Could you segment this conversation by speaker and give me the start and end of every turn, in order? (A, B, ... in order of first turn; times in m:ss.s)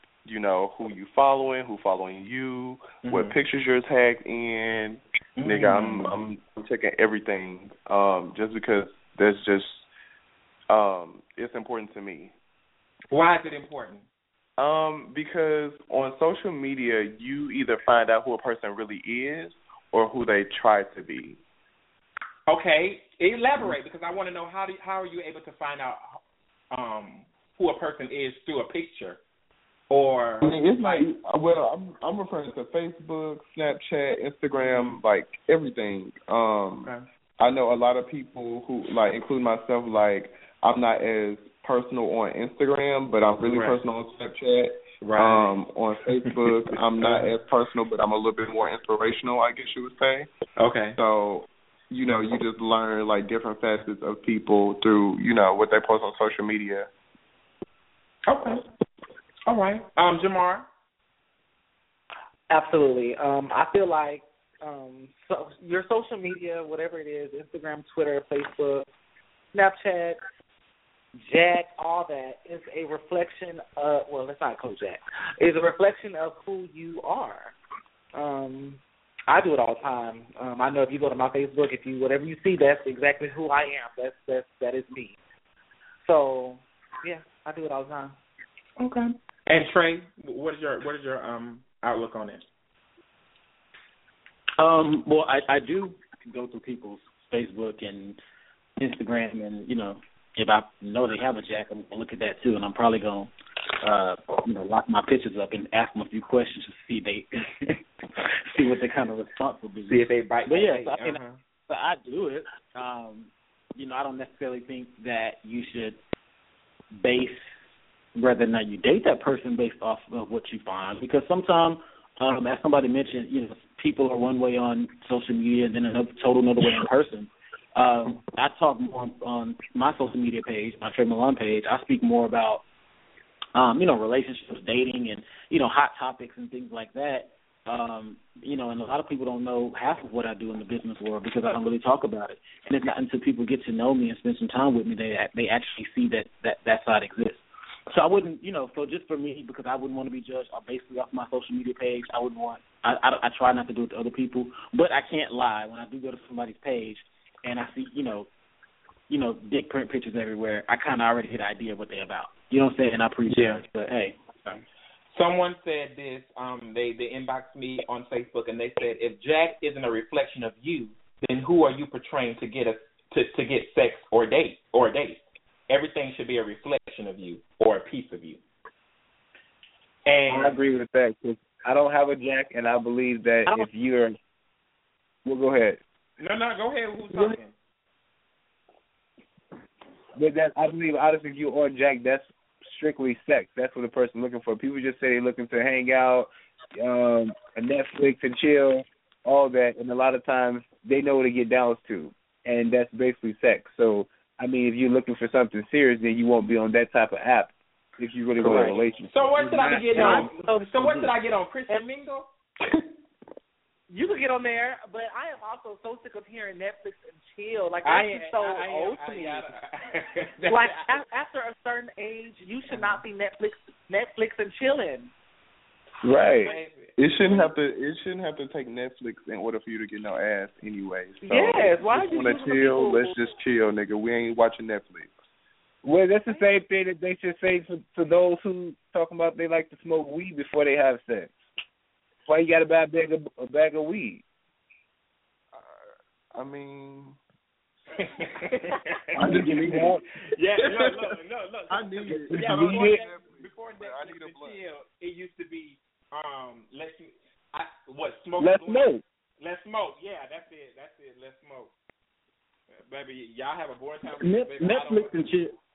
0:00.2-0:09.9 A
0:03.0-0:03.4 B
0:05.4-0:06.2 B
0:10.7-0:12.3 A
0:13.1-0:14.0 B
0:14.6-0:21.4 A
0:22.5-0:26.2 B
0:26.7-0:29.2 B
0:29.9-0:31.1 B
0:30.4-0:50.3 A
0:34.6-0:35.0 B
0:43.5-0:43.8 B
0:45.0-0:45.5 B
0:46.2-0:47.3 B
0:50.6-0:51.0 B
0:51.0-0:56.9 A
0:58.3-0:58.6 B
0:59.5-1:00.6 B
1:02.5-1:08.9 C
1:09.5-1:10.2 C
1:11.2-1:17.5 C
1:18.2-1:25.2 C
1:26.0-1:28.2 C
1:28.8-1:32.4 B
1:34.6-1:38.2 D
1:38.8-1:47.8 D
1:48.5-1:56.0 D
1:49.9-1:51.4 B
1:57.0-1:57.6 D
1:58.2-2:12.6 D
2:13.6-2:38.3 D
2:39.1-2:44.2 D
2:45.1-2:58.4 B
3:00.1-3:00.6 B
3:00.3-3:04.2 E
3:05.2-3:05.8 E
3:06.2-3:07.5 B
3:07.1-3:07.4 E
3:10.2-3:30.3 E
3:28.4-3:28.8 A
3:28.4-3:28.8 C
3:28.5-3:32.3 B
3:29.9-3:31.0 C
3:33.9-3:39.5 C
3:37.8-3:40.9 B
3:40.5-3:45.1 C
3:42.7-3:43.0 B
3:46.0-3:46.5 E
3:46.4-3:47.5 B
3:47.0-3:55.2 A
3:51.2-3:53.2 C
3:55.8-4:01.4 E
4:02.3-4:04.2 E
4:05.5-4:05.8 A
4:06.3-4:07.2 A
4:08.0-4:21.7 B
4:09.2-4:10.0 A
4:09.2-4:10.0 E
4:10.6-4:10.9 A
4:11.7-4:14.6 A
4:12.1-4:13.0 E
4:18.4-4:19.0 E
4:22.9-4:25.2 B
4:24.2-4:25.6 D